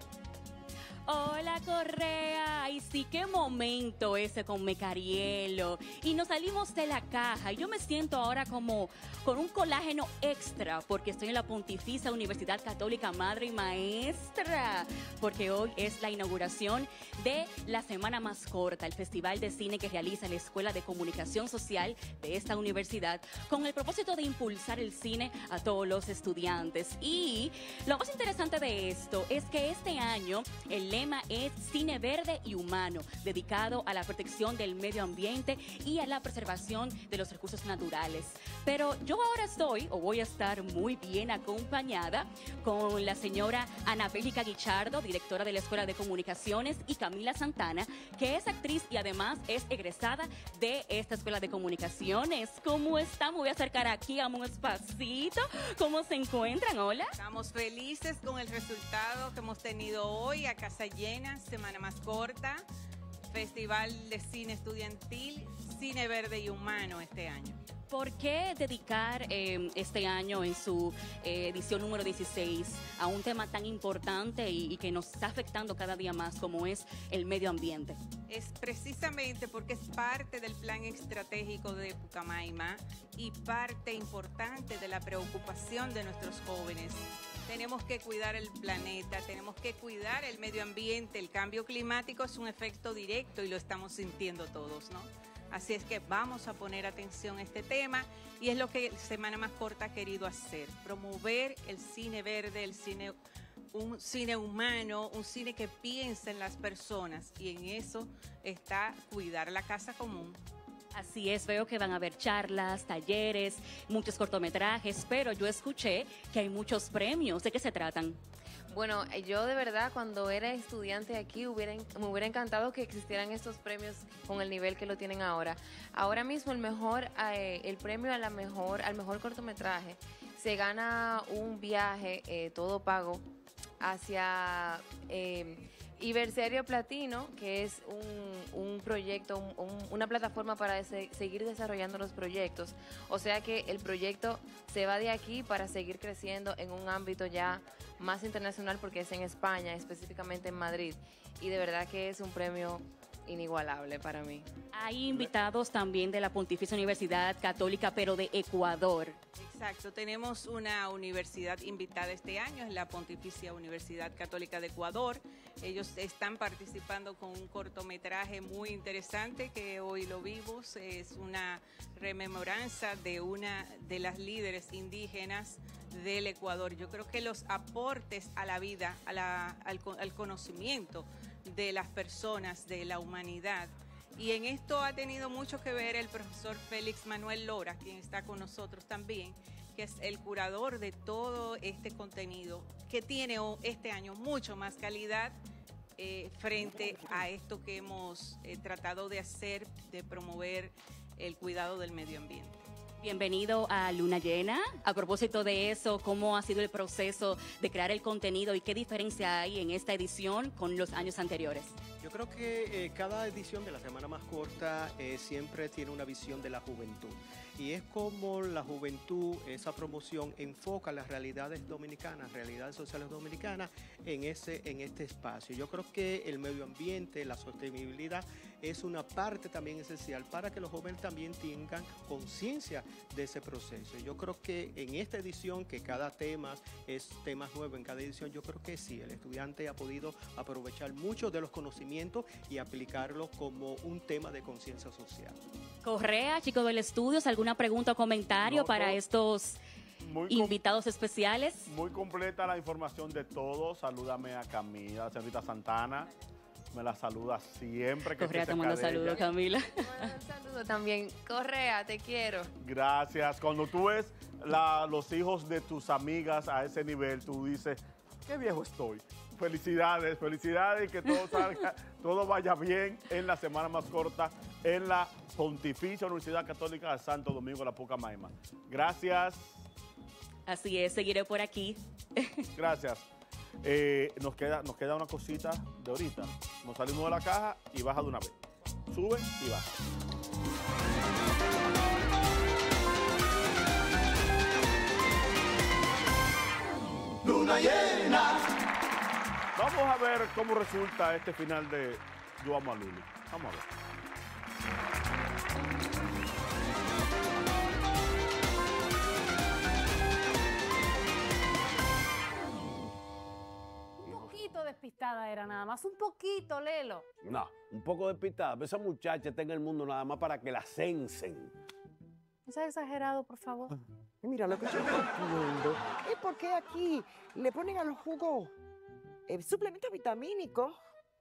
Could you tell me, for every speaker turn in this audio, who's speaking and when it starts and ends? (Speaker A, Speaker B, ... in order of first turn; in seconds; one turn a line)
Speaker A: 1.1-57.1
Speaker B: 57.2-62.6
Speaker B: 63.3-67.6
Speaker A: 67.9-78.0
Speaker B: 78.3-103.2
Speaker B: 103.7-110.4
Speaker A: 110.9-118.2
Speaker C: 118.7-133.2
Speaker C: 133.8-154.5
Speaker A: 154.7-159.2
Speaker B: 159.4-195.4
Speaker B: 196.0-202.6
Speaker A: 203.0-211.8
Speaker D: 212.0-245.4
Speaker A: 245.8-249.6
Speaker E: 248.4-249.0
Speaker E: 250.0-250.6
Speaker A: 250.3-251.7
Speaker E: 251.7-256.1
Speaker E: 256.7-259.2
Speaker A: 258.2-260.1
Speaker C: 259.8-262.5
Speaker E: 262.6-279.6
Speaker A: 280.5-282.4
Speaker E: 282.6-283.1
Speaker E: 283.6-288.4
Speaker E: 288.9-289.7
Speaker E: 299.6-303.7
Speaker F: 314.0-317.1
Speaker G: 314.1-314.3
Speaker G: 317.2-321.5
Speaker F: 322.5-323.7
Speaker H: 324.2-328.5
Speaker H: 329.3-330.8